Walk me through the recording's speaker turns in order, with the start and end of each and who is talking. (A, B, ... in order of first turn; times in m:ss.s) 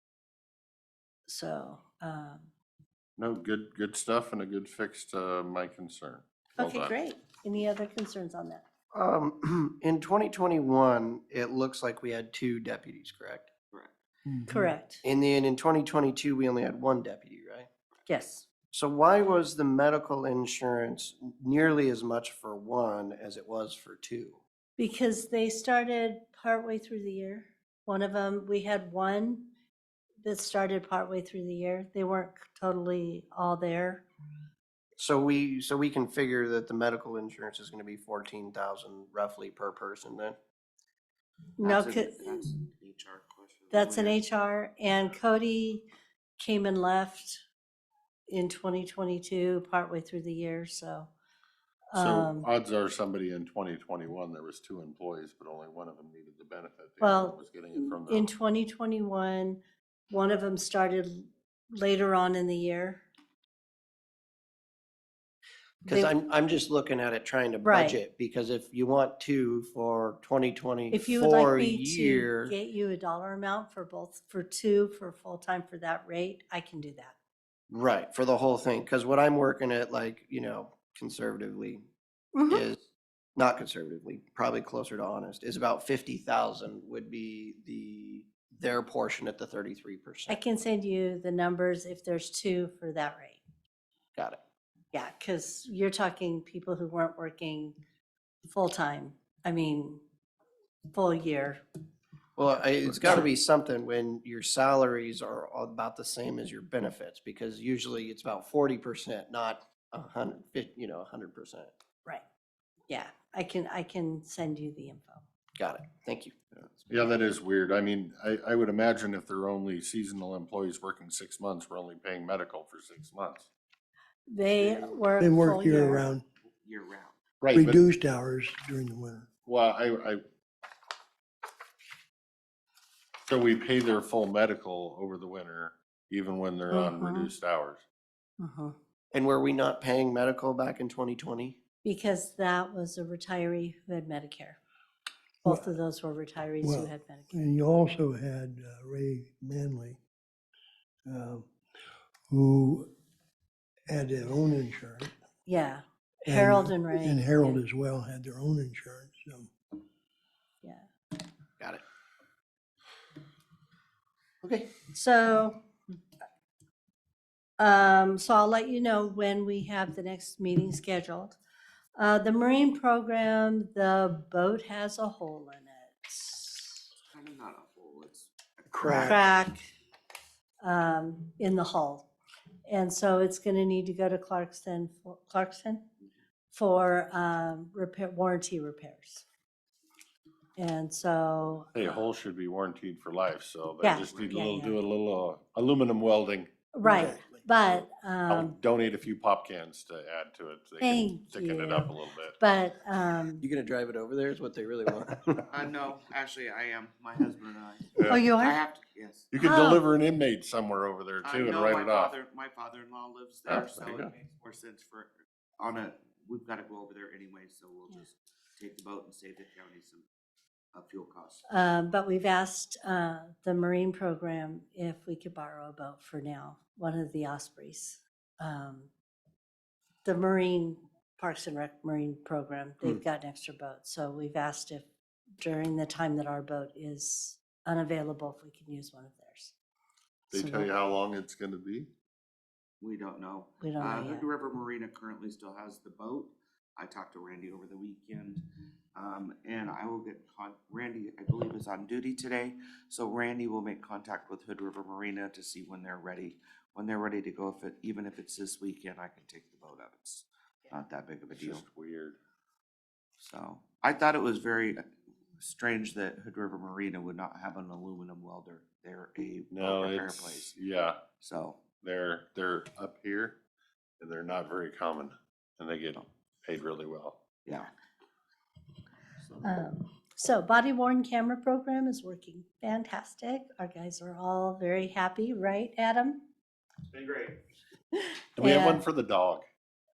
0:01.3-0:02.5 A
0:03.2-0:06.9 B
0:06.6-0:08.6 A
0:08.9-0:13.5 C
0:14.2-0:14.7 D
0:14.5-0:15.0 A
0:15.0-0:17.7 C
0:18.0-0:18.5 A
0:18.7-0:24.4 C
0:24.8-0:29.4 A
0:30.2-0:34.0 A
0:35.0-0:40.4 C
0:41.6-0:42.4 A
0:41.6-0:44.2 E
0:43.7-0:45.8 A
0:46.4-0:47.4 A
0:48.3-0:51.1 A
0:51.9-0:52.5 A
0:51.9-0:58.3 B
0:57.0-1:03.0 A
1:05.8-1:12.5 C
1:05.8-1:06.1 A
1:07.6-1:08.0 A
1:10.9-1:17.1 A
1:17.7-1:21.8 C
1:22.3-1:22.6 A
1:22.5-1:22.8 C
1:23.4-1:30.4 C
1:30.3-1:33.4 A
1:34.9-1:37.8 A
1:38.5-1:40.0 A
1:40.9-1:41.6 A
1:42.4-1:51.7 C
1:52.9-1:55.2 A
1:55.6-1:56.4 C
1:56.9-2:03.5 B
2:04.3-2:06.1 A
2:04.6-2:04.9 E
2:05.2-2:06.2 D
2:06.5-2:07.2 E
2:07.4-2:07.8 B
2:07.5-2:09.3 D
2:09.4-2:10.2 B
2:13.2-2:17.8 B
2:16.7-2:17.3 A
2:18.4-2:18.7 A
2:19.1-2:21.6 C
2:21.8-2:24.6 A
2:25.4-2:27.4 A
2:25.4-2:25.8 D
2:26.6-2:30.0 D
2:31.0-2:31.5 D
2:32.3-2:32.9 D
2:33.9-2:35.1 D
2:35.4-2:37.6 A
2:36.2-2:39.5 D
2:44.4-2:44.7 C
2:44.9-2:45.6 A
2:47.6-2:51.4 A
2:52.0-2:56.9 A
2:57.1-2:59.2 E
2:58.7-2:59.2 D
2:58.9-2:59.7 A
3:00.6-3:02.0 A
3:02.7-3:05.8 A
3:06.5-3:09.2 A
3:10.6-3:11.7 A
3:11.7-3:16.5 B
3:13.8-3:14.8 A
3:16.7-3:18.6 A
3:16.8-3:17.5 D
3:17.7-3:22.4 B
3:20.8-3:23.4 A
3:23.4-3:25.4 C
3:25.4-3:29.3 E
3:28.0-3:28.3 B
3:28.1-3:28.6 A
3:29.3-3:32.1 B
3:29.4-3:29.8 A
3:31.2-3:40.0 E
3:33.5-3:34.1 B
3:40.7-3:41.4 E
3:41.5-3:48.9 A
3:50.0-3:54.8 A
3:55.4-3:59.5 A
4:00.3-4:00.7 A
4:00.3-4:01.9 B
4:02.8-4:08.4 E
4:03.6-4:04.3 A
4:08.9-4:21.6 E
4:21.3-4:22.2 B
4:23.2-4:24.8 E
4:25.4-4:30.5 E
4:29.5-4:31.0 B
4:31.2-4:31.6 E
4:31.8-4:33.4 B
4:34.0-4:37.2 B
4:39.4-4:46.2 A
4:48.4-4:49.4 B
4:48.4-4:48.8 A